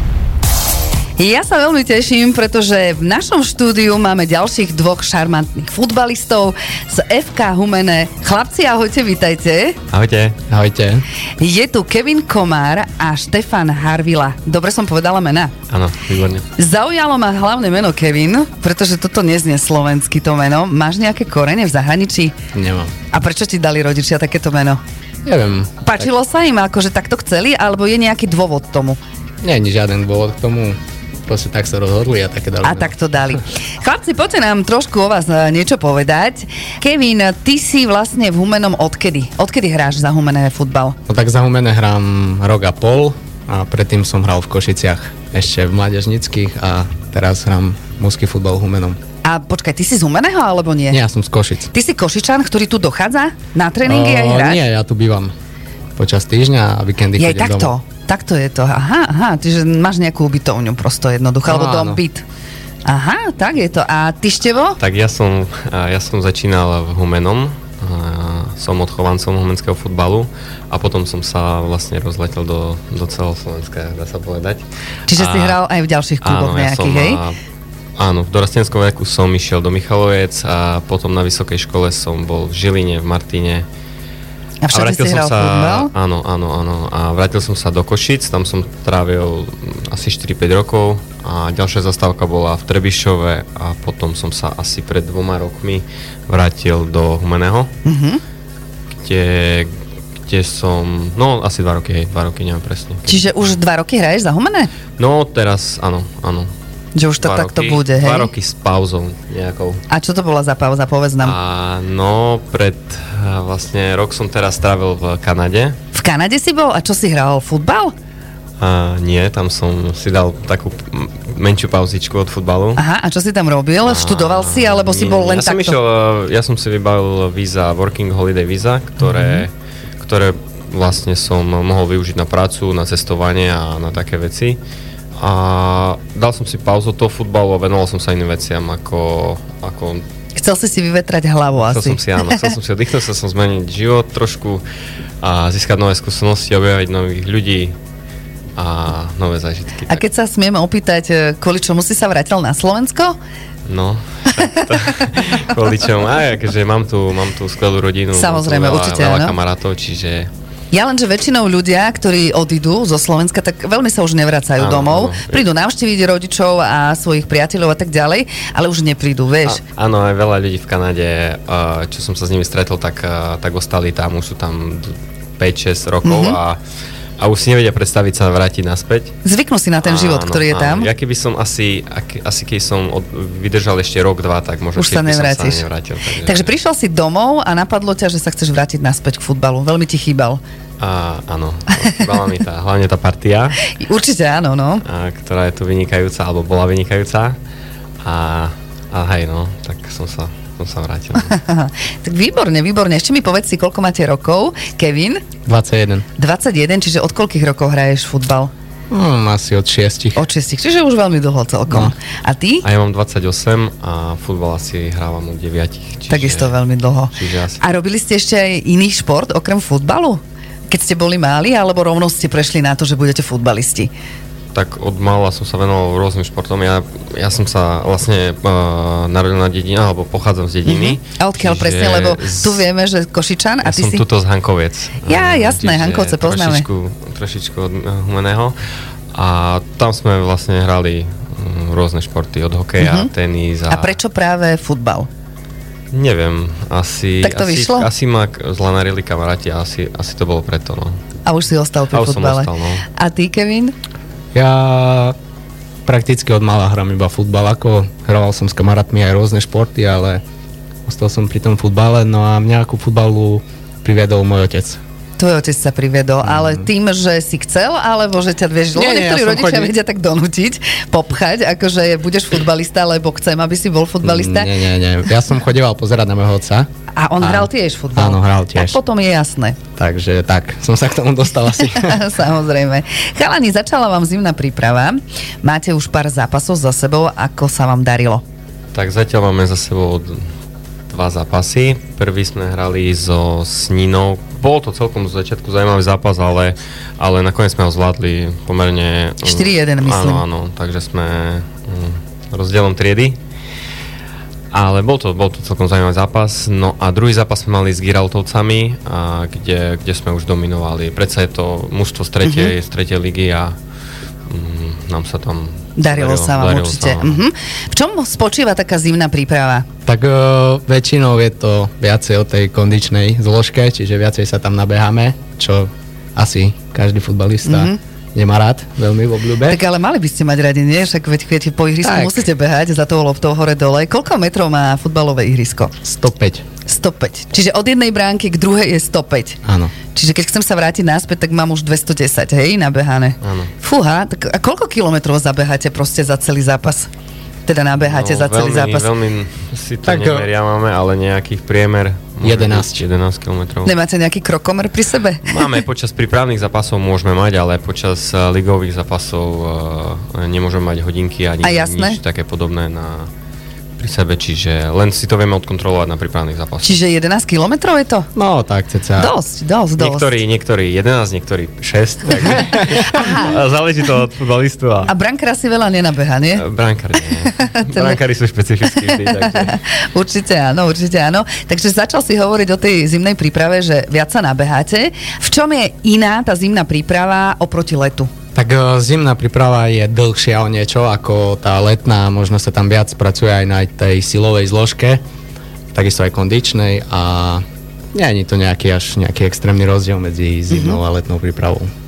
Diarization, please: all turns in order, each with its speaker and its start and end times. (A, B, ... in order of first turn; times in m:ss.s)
0:01.2-0:09.8 A
0:09.9-0:10.4 B
0:10.5-0:11.0 C
0:11.4-0:15.5 A
0:15.7-0:16.4 B
0:16.6-0:22.3 A
0:22.5-0:22.9 C
0:23.1-0:24.8 A
0:25.2-0:26.1 C
0:25.8-0:29.0 A
0:29.4-0:32.9 C
0:32.6-0:41.0 A
0:41.1-0:49.0 C
0:49.2-0:51.0 A
0:50.9-0:51.7 C
0:51.7-0:54.6 A
0:53.8-0:55.3 C
0:56.0-0:57.7 C
0:57.2-1:02.2 A
1:01.4-1:02.0 C
1:02.8-1:04.8 A
1:04.8-1:15.6 B
1:15.1-1:17.2 A
1:16.2-1:17.4 B
1:18.0-1:23.6 B
1:24.6-1:25.9 A
1:24.7-1:37.7 B
1:37.8-1:38.2 A
1:38.9-1:39.7 B
1:40.2-1:43.5 B
1:43.1-1:44.7 A
1:45.0-1:46.5 B
1:46.9-1:48.3 A
1:47.2-1:49.8 B
1:49.9-1:51.4 A
1:51.2-1:55.8 B
1:55.9-1:57.9 A
1:58.6-2:02.8 B
2:02.8-2:05.8 A
2:03.8-2:14.6 B
2:15.2-2:20.0 B
2:20.4-2:22.5 A
2:21.6-2:24.6 B
2:25.2-2:27.7 B
2:28.6-2:30.0 B
2:29.9-2:33.2 A
2:33.7-2:40.3 B
2:38.1-2:39.4 A
2:40.7-2:49.6 A
2:44.6-2:45.4 B
2:49.4-2:56.6 B
2:56.0-2:56.4 A
2:57.2-2:59.2 B
2:59.2-3:00.9 A
2:59.8-3:06.5 B
3:04.8-3:05.7 A
3:06.2-3:10.4 A
3:10.8-3:13.6 B
3:13.7-3:14.8 A
3:14.8-3:17.4 B
3:18.0-3:21.4 B
3:21.2-3:25.2 A
3:25.4-3:26.0 C
3:26.2-3:28.5 A
3:28.9-3:30.2 C
3:30.2-3:32.6 A
3:31.7-3:31.9 C
3:32.6-3:36.6 B
3:36.1-3:43.9 A
3:37.1-3:37.6 B
3:44.5-3:52.6 B
3:50.6-3:54.0 A
3:53.6-3:58.6 B
3:55.0-3:56.6 A
3:59.1-4:04.0 B
4:02.8-4:03.1 A
4:03.7-4:05.1 A
4:05.9-4:11.0 B
4:07.2-4:07.9 A
4:11.2-4:13.7 A
4:11.9-4:12.8 B
4:14.3-4:15.1 C
4:15.8-4:20.2 C
4:20.8-4:24.8 C
4:25.2-4:34.5 A
4:26.3-4:26.6 C
4:28.7-4:29.7 C
4:34.0-4:36.7 C
4:36.9-4:39.6 A
4:37.2-4:38.8 C
4:39.8-4:42.0 C
4:41.7-4:48.2 A
4:48.7-4:50.2 B
4:50.9-5:03.2 B
4:59.2-5:00.2 A
5:04.5-5:13.6 B
5:12.2-5:12.5 A
5:14.3-5:17.2 B
5:15.8-5:19.6 A
5:19.8-5:29.6 C
5:27.4-5:27.8 A
5:29.4-5:35.7 A
5:31.8-5:32.2 C
5:35.8-5:36.4 C
5:36.6-5:39.4 A
5:39.4-5:39.7 C
5:39.9-5:46.9 A
5:43.2-5:43.5 B
5:47.4-5:48.9 A
5:47.8-5:53.7 B
5:49.8-5:50.3 C
5:52.2-5:52.8 C
5:53.6-5:55.6 A
5:55.2-6:03.1 B
6:01.4-6:02.0 A
6:03.8-6:06.8 B
6:06.6-6:08.1 A
6:08.1-6:09.1 C
6:09.0-6:10.1 A
6:09.8-6:14.9 B
6:12.9-6:13.3 A
6:14.8-6:16.4 A
6:16.3-6:19.6 B
6:17.5-6:18.0 A
6:18.8-6:28.1 A
6:28.3-6:35.0 C
6:35.7-6:37.4 C
6:37.9-6:41.7 C
6:40.5-6:40.8 A